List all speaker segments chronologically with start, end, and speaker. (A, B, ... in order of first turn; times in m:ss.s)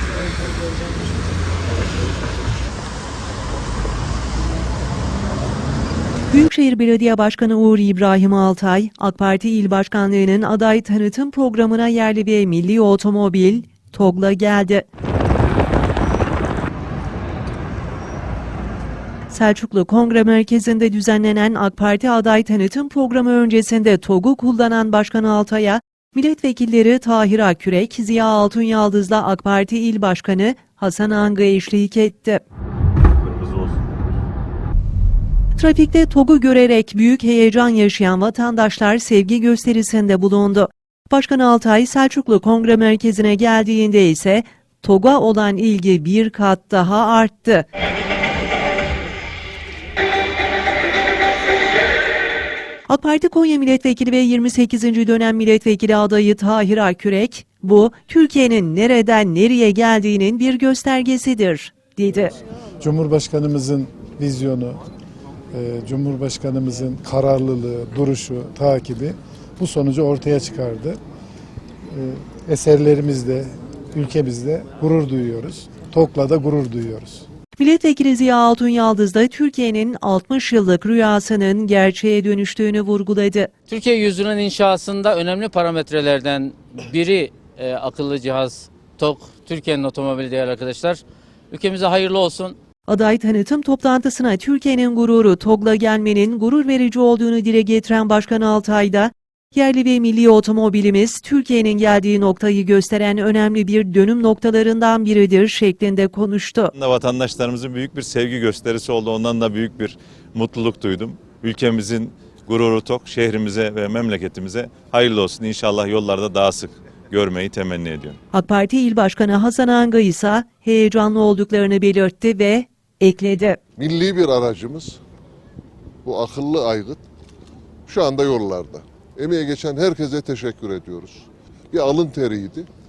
0:00.4-0:00.7 A
0:06.3-0:14.8 B
0:19.3-0:32.4 B
0:33.2-0:33.9 C
0:35.6-0:47.6 B
0:52.9-1:02.4 B
1:02.8-1:04.8 D
1:05.5-1:11.0 D
1:11.9-1:17.2 D
1:17.6-1:23.5 B
1:23.7-1:32.6 A
1:32.9-1:46.7 B
1:46.7-1:58.2 C
1:58.3-2:03.6 B
2:03.8-2:05.0 E
2:06.0-2:07.0 E
2:07.9-2:12.7 E